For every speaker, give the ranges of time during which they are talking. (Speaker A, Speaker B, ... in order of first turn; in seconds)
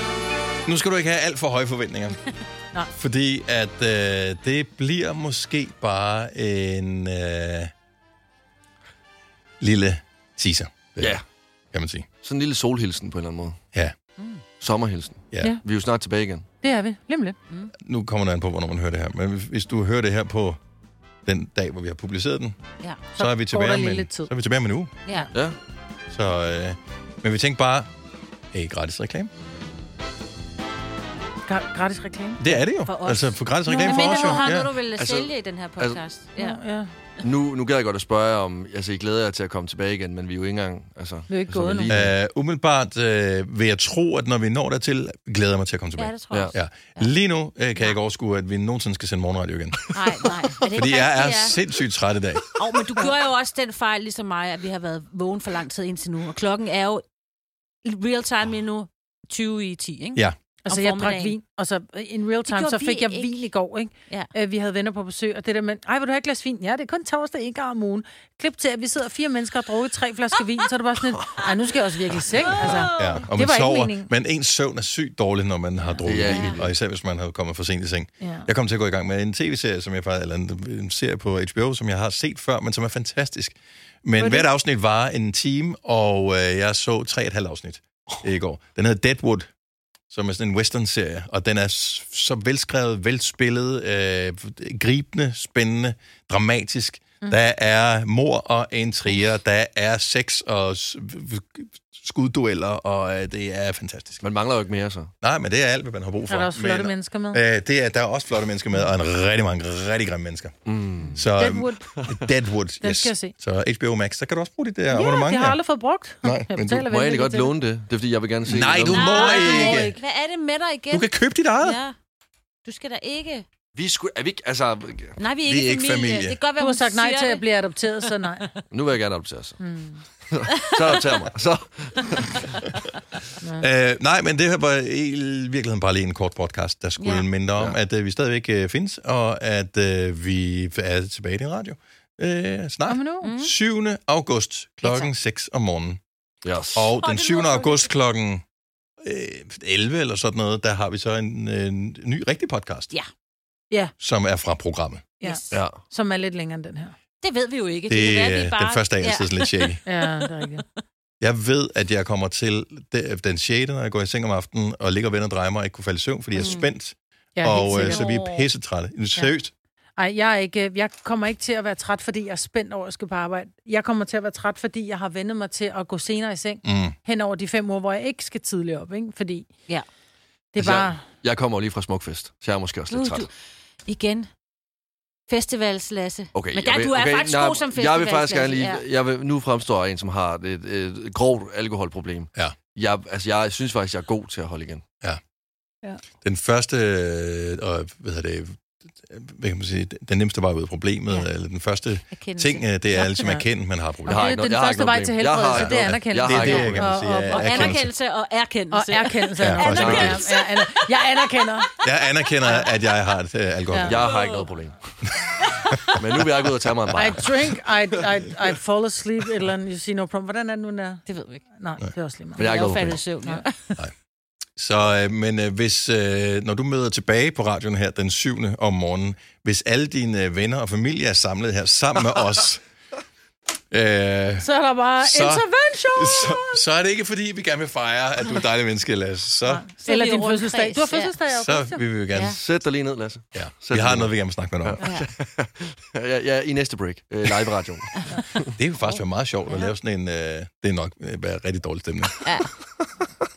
Speaker A: 0.7-2.2, 2.9-7.7, 9.6-12.1, 17.8-20.6, 21.2-22.6, 23.2-24.9, 26.1-27.9, 28.5-29.3, 32.4-34.7, 41.9-50.0, 50.7-52.6, 72.8-89.5, 90.1-104.2, 105.2-110.5, 111.1-115.7, 116.2-116.8, 118.5-120.0, 120.9-121.8, 125.4-126.4, 133.6-146.0, 146.7-148.4, 149.0-152.9, 154.0-155.1, 157.9-159.8, 161.2-169.5, 176.6-176.9, 196.2-204.3, 205.5-207.9, 209.4-210.2, 211.8-214.1, 224.6-232.6, 233.7-239.6, 241.3-242.4, 243.3-245.0, 248.6-252.3
Speaker B: 12.2-13.6, 14.6-16.5, 35.0-36.0, 37.2-42.1, 76.0-76.7, 104.2-105.1, 110.7-111.2, 116.7-119.2, 123.7-125.2, 128.7-129.6, 130.3-132.5, 146.4-146.9, 155.5-155.8, 180.6-183.3, 186.3-194.8, 204.1-206.9, 209.6-210.2, 213.8-214.8, 215.9-217.6, 222.4-223.0, 242.4-248.5
Speaker C: 14.2-14.4, 25.1-25.3, 32.9-36.6, 46.0-47.1, 49.9-51.6, 52.5-57.0, 57.8-61.4, 62.4-63.4, 72.3-73.3, 75.9-76.5, 118.9-121.9, 122.6-123.5, 125.2-127.4, 128.0-128.6, 130.8-131.1, 137.0-137.3, 143.2-143.5, 144.8-145.1, 146.9-147.9, 155.2-155.6, 157.2-160.6, 166.4-166.7, 167.5-168.4, 182.9-183.3, 183.8-184.3, 185.3-188.8, 202.1-202.6, 206.7-211.4, 213.9-214.6, 221.1-221.4, 222.4-223.8, 239.8-241.2, 242.1-242.4, 244.8-245.1, 248.8-249.7, 252.2-252.5
Speaker D: 16.6-17.4, 23.1-24.3, 31.4-32.6, 33.7-34.4, 36.4-36.9, 41.3-41.9, 60.6-74.1, 78.2-78.5, 84.2-84.5, 106.3-107.4, 111.3-111.8, 112.8-113.3, 114.9-117.5, 119.0-120.0, 126.6-128.5, 129.6-130.0, 142.9-143.3, 155.2-156.9, 159.8-160.6, 166.4-166.6, 167.3-168.2, 170.0-179.5, 180.5-181.0, 202.9-203.4, 204.1-207.8, 208.7-211.7, 213.7-214.0, 216.9-222.5, 234.4-236.6, 239.4-241.8